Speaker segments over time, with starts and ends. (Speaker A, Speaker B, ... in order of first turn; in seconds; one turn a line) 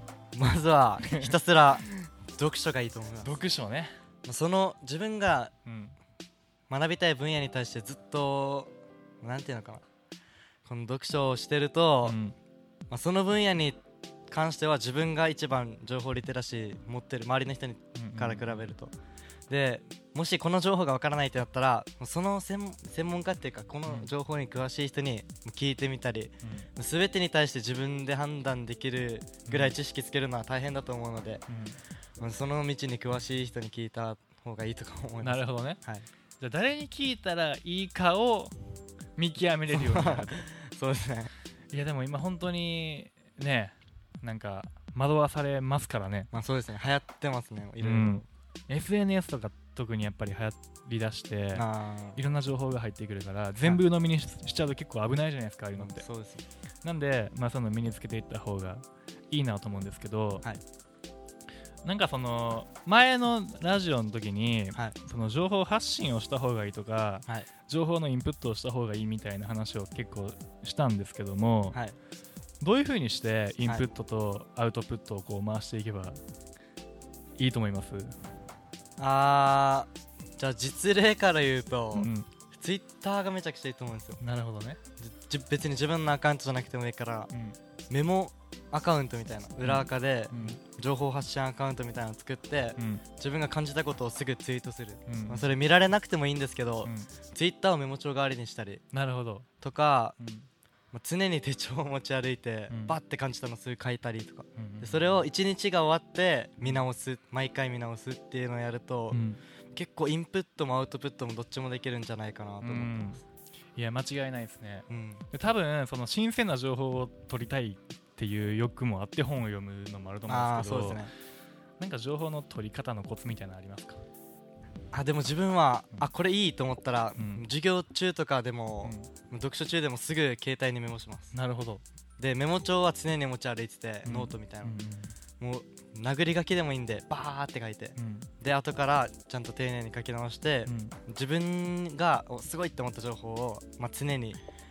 Speaker A: 0.3-3.3
Speaker B: 1.1-2.1
Speaker B: 3.2-4.0
Speaker A: 4.2-5.5
Speaker B: 5.7-6.0
Speaker A: 6.7-9.8
Speaker A: 10.7-12.2
Speaker B: 12.0-12.4
Speaker A: 12.9-18.9
Speaker B: 17.9-18.7
Speaker A: 19.5-31.4
Speaker B: 26.4-26.7
Speaker B: 29.5-29.8
Speaker B: 31.5-31.8
Speaker A: 32.2-36.1
Speaker B: 35.2-35.8
Speaker B: 36.4-38.5
Speaker B: 39.2-40.5
Speaker A: 39.7-41.3
Speaker B: 41.7-46.3
Speaker A: 46.3-48.2
Speaker B: 47.8-51.6
Speaker A: 51.5-52.2
Speaker B: 52.2-56.1
Speaker A: 55.8-56.5
Speaker B: 56.8-60.5
Speaker B: 61.8-71.8
Speaker B: 72.6-76.2
Speaker B: 77.4-78.2
Speaker A: 79.0-84.2
Speaker B: 82.0-82.3
Speaker B: 84.2-84.8
Speaker A: 85.0-87.3
Speaker B: 87.3-87.6
Speaker A: 87.9-98.8
Speaker B: 89.6-90.6
Speaker B: 92.8-93.0
Speaker B: 95.1-95.5
Speaker B: 96.8-97.1
Speaker B: 98.9-99.5
Speaker A: 99.6-100.2
Speaker B: 100.2-100.5
Speaker A: 100.9-109.2
Speaker B: 102.7-103.0
Speaker B: 104.6-105.2
Speaker B: 109.1-109.4
Speaker A: 109.7-113.2
Speaker B: 112.6-113.2
Speaker B: 113.8-121.1
Speaker A: 114.9-115.2
Speaker A: 120.3-121.1
Speaker B: 121.8-124.0
Speaker A: 124.9-131.3
Speaker B: 127.2-127.5
Speaker B: 128.8-129.1
Speaker B: 131.3-131.8
Speaker A: 132.2-134.7
Speaker B: 134.1-135.1
Speaker A: 135.4-144.4
Speaker B: 138.0-138.3
Speaker B: 140.7-141.0